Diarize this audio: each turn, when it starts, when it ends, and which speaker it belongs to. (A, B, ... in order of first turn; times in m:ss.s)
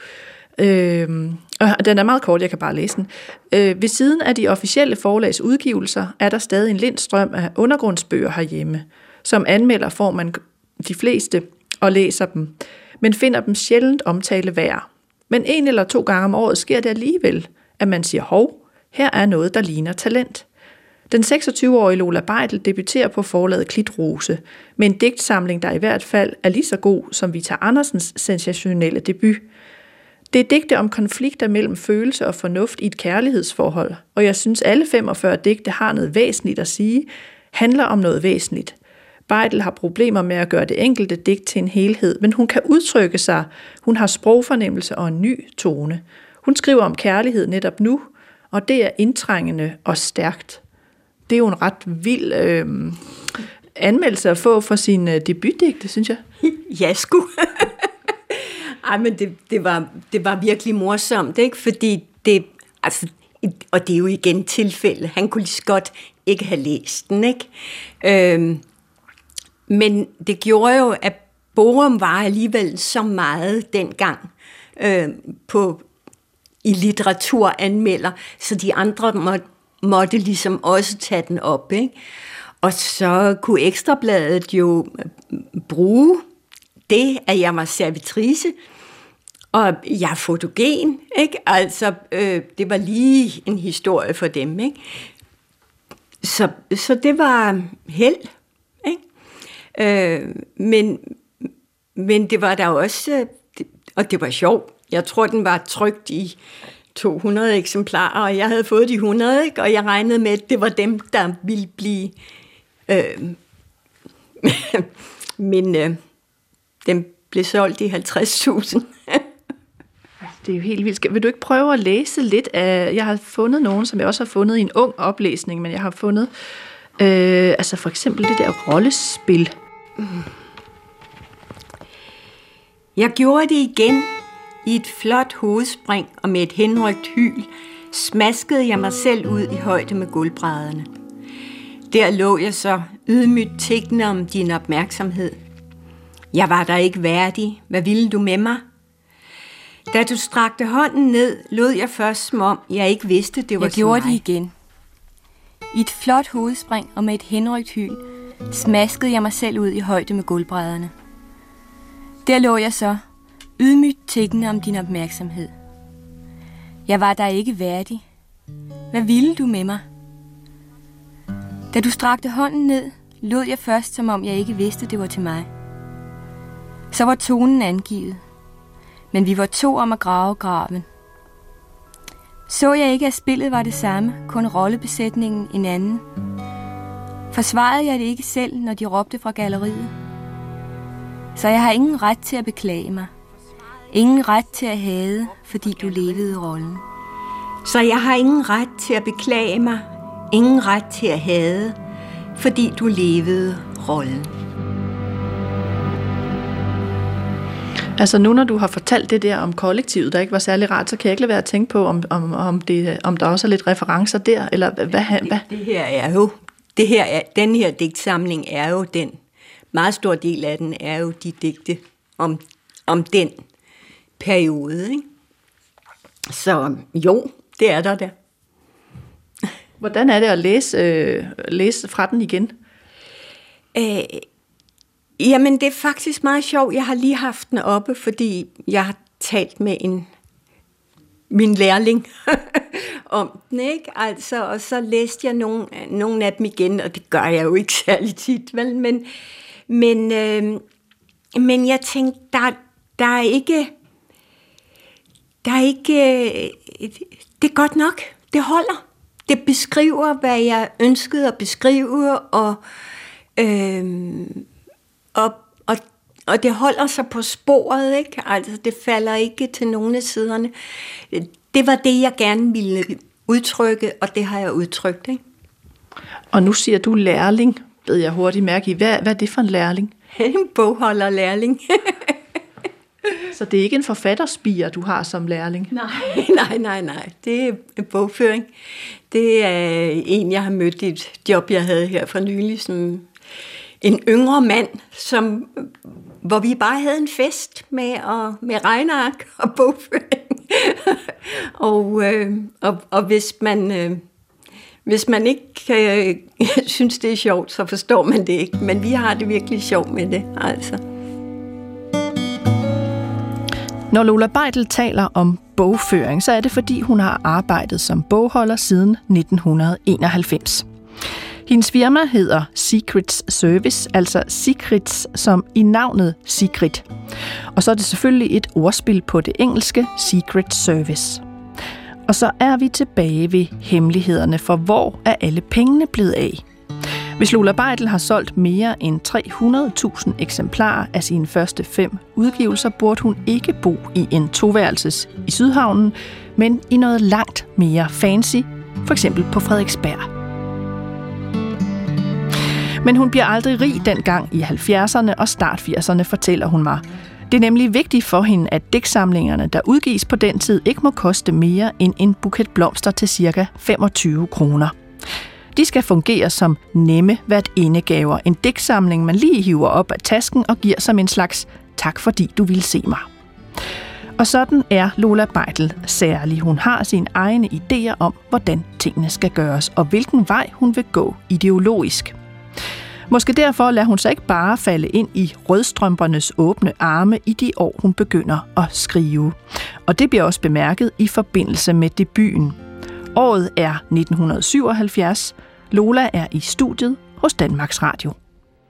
0:00.6-0:20.5 A
0:21.1-0:29.4 A
0:30.3-0:38.8 A
0:39.3-0:50.6 A
0:51.3-0:53.0 A
0:53.8-0:56.2 A
0:56.4-1:07.5 B
1:08.0-1:08.6 B
1:09.7-1:15.8 B
1:16.6-1:21.9 B
1:22.6-1:26.2 B
1:26.9-1:28.5 B
1:29.5-1:34.8 B
1:36.2-1:38.3 B
1:39.8-1:46.4 B
1:47.0-1:52.2 B
1:52.9-1:53.4 B
1:54.4-1:54.9 B
1:55.4-1:56.0 B
1:56.8-1:59.2 B
2:00.2-2:06.3 A
2:07.0-2:09.5 A
2:13.0-2:14.1 B
2:14.6-2:20.9 B
2:21.9-2:25.4 B
2:26.3-2:28.6 B
2:29.9-2:34.2 B
2:33.6-2:34.5 C
2:35.7-2:40.9 C
2:42.2-2:43.0 C
2:43.6-2:45.5 C
2:46.9-2:48.0 C
2:48.9-2:49.8 C
2:51.7-2:55.5 C
2:56.9-2:58.2 C
2:59.1-3:00.9 C
3:02.5-3:06.0 C
3:07.3-3:09.9 C
3:11.4-3:13.1 C
3:13.9-3:16.8 C
3:17.6-3:21.8 B
3:22.4-3:24.3 B
3:28.0-3:35.4 A
3:35.1-3:39.2 B
3:39.7-3:43.4 B
3:44.2-3:45.0 B
3:46.3-3:48.1 B
3:49.8-3:52.6 A
3:53.8-3:54.3 B
3:55.2-4:00.1 B
4:01.3-4:09.1 B
4:09.7-4:10.6 B
4:11.4-4:13.7 B
4:15.4-4:22.6 B
4:23.4-4:24.4 B
4:25.2-4:30.5 B
4:31.1-4:35.2 B
4:36.3-4:39.9 A
4:40.2-4:42.2 B
4:43.3-4:45.7 A
4:45.7-4:48.5 B
4:49.1-4:53.1 B
4:53.8-4:55.7 B
4:56.2-5:04.0 B
5:04.9-5:10.8 B
5:13.9-5:20.7 A
5:21.5-5:26.9 A
5:27.5-5:31.2 A
5:32.1-5:36.4 A
5:37.2-5:50.1 A
5:52.8-6:04.8 A
6:05.5-6:13.1 A
6:14.2-6:22.2 A
6:23.1-6:32.6 A
6:33.1-6:38.2 A